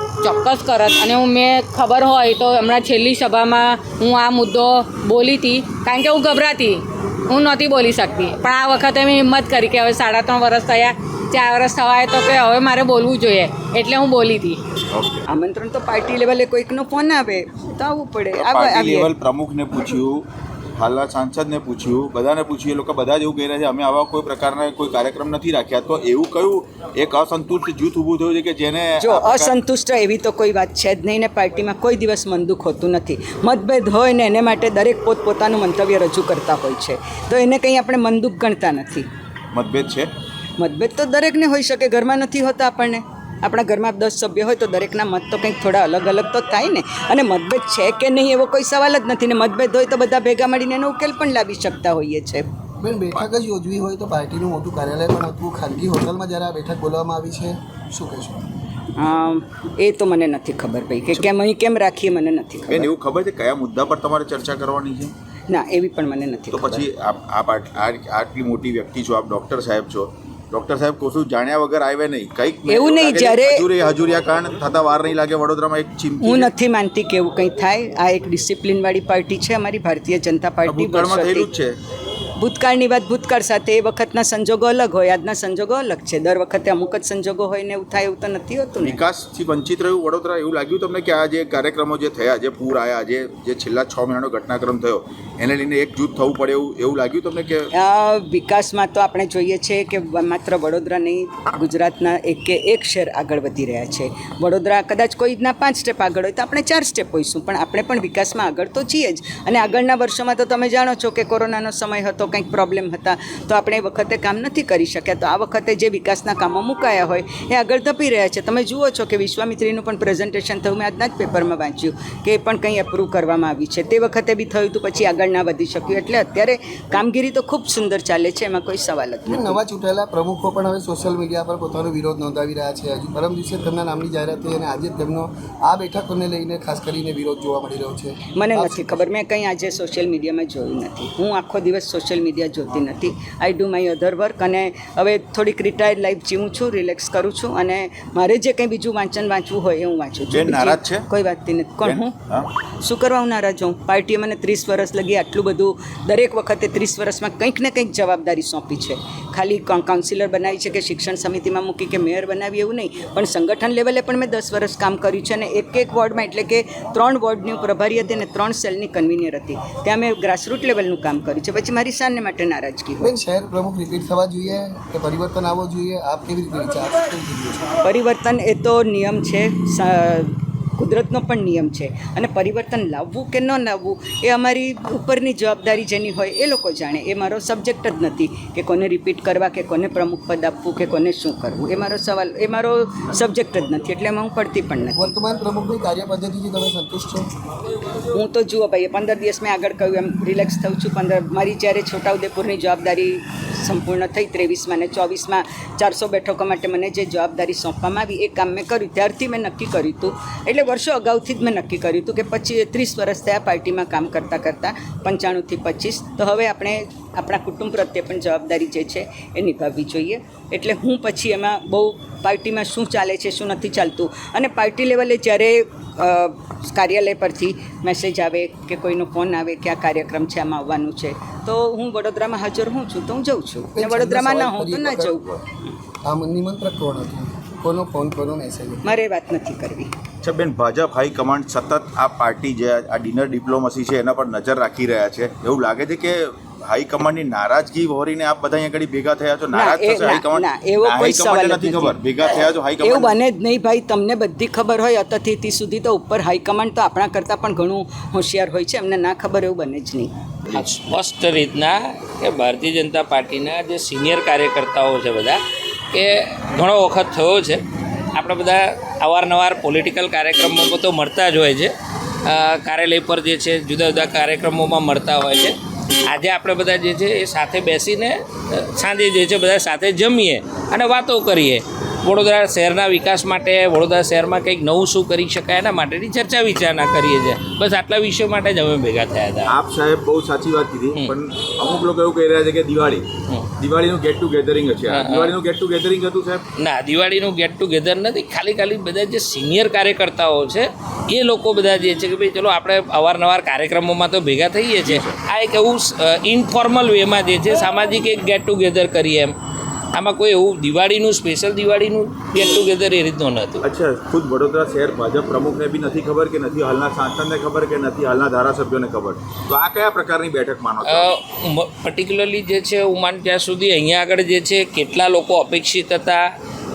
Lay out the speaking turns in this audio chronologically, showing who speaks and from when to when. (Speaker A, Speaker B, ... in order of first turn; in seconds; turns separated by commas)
Speaker A: 0.2-14.6, Speaker B: 14.9-15.2, Speaker C: 15.3-19.1, Speaker B: 18.3-20.2, Speaker B: 20.8-29.6, Speaker C: 29.0-39.1, Speaker B: 39.5-40.1, Speaker C: 40.6-52.5, Speaker D: 52.8-58.5, Speaker C: 59.0-62.9, Speaker B: 62.7-65.1, Speaker C: 65.5-66.9, Speaker B: 66.5-76.5, Speaker C: 72.7-73.6, Speaker C: 76.2-81.5, Speaker B: 80.6-81.8, Speaker C: 82.4-89.0, Speaker B: 88.8-97.7, Speaker C: 97.8-129.6, Speaker D: 129.2-139.1, Speaker C: 138.4-152.1, Speaker B: 150.3-151.1, Speaker B: 151.8-152.5, Speaker C: 152.8-173.1, Speaker D: 173.0-177.7, Speaker C: 177.8-195.1, Speaker D: 194.9-197.3, Speaker C: 198.1-235.2, Speaker D: 233.7-235.3, Speaker D: 236.0-238.8, Speaker C: 238.9-239.9, Speaker B: 240.2-253.2, Speaker C: 249.5-260.1, Speaker E: 260.5-265.4, Speaker E: 265.9-267.6, Speaker E: 268.1-271.7, Speaker E: 272.2-275.6, Speaker E: 276.1-289.6, Speaker B: 289.5-293.1, Speaker B: 293.6-296.4, Speaker E: 294.9-295.4, Speaker E: 296.6-309.3, Speaker E: 309.9-313.6, Speaker B: 313.6-321.1, Speaker E: 320.9-326.2